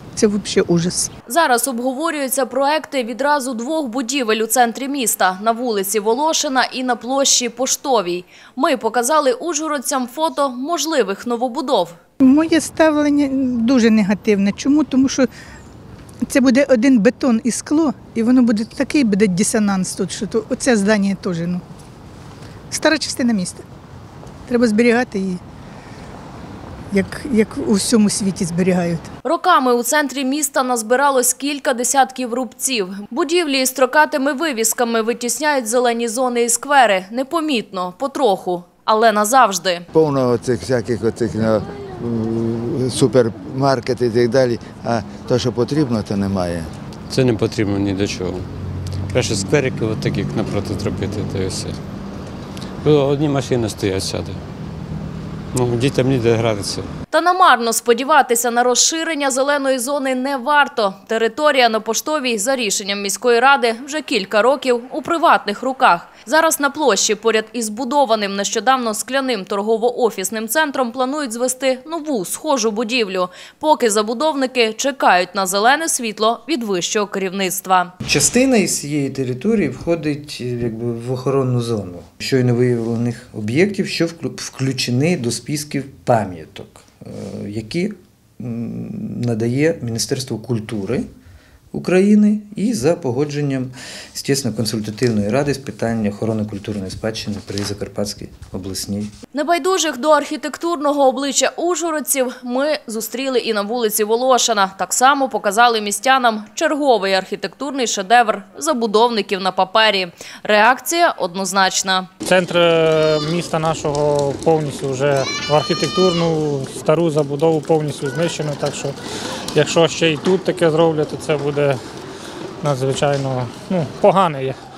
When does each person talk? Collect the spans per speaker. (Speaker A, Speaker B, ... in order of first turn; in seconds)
Speaker A: 0.2-1.1, 12.2-15.3, 16.2-21.6, 22.7-23.6, 24.5-25.4, 26.9-29.1
Speaker B: 1.3-12.0, 29.2-39.9, 57.1-77.9, 99.3-112.1
Speaker C: 39.9-46.7
Speaker D: 47.1-48.5, 49.1-51.8, 52.8-54.4, 55.5-56.9
Speaker E: 78.0-91.0, 91.7-99.1
Speaker F: 112.3-119.0, 119.5-121.8, 122.6-124.6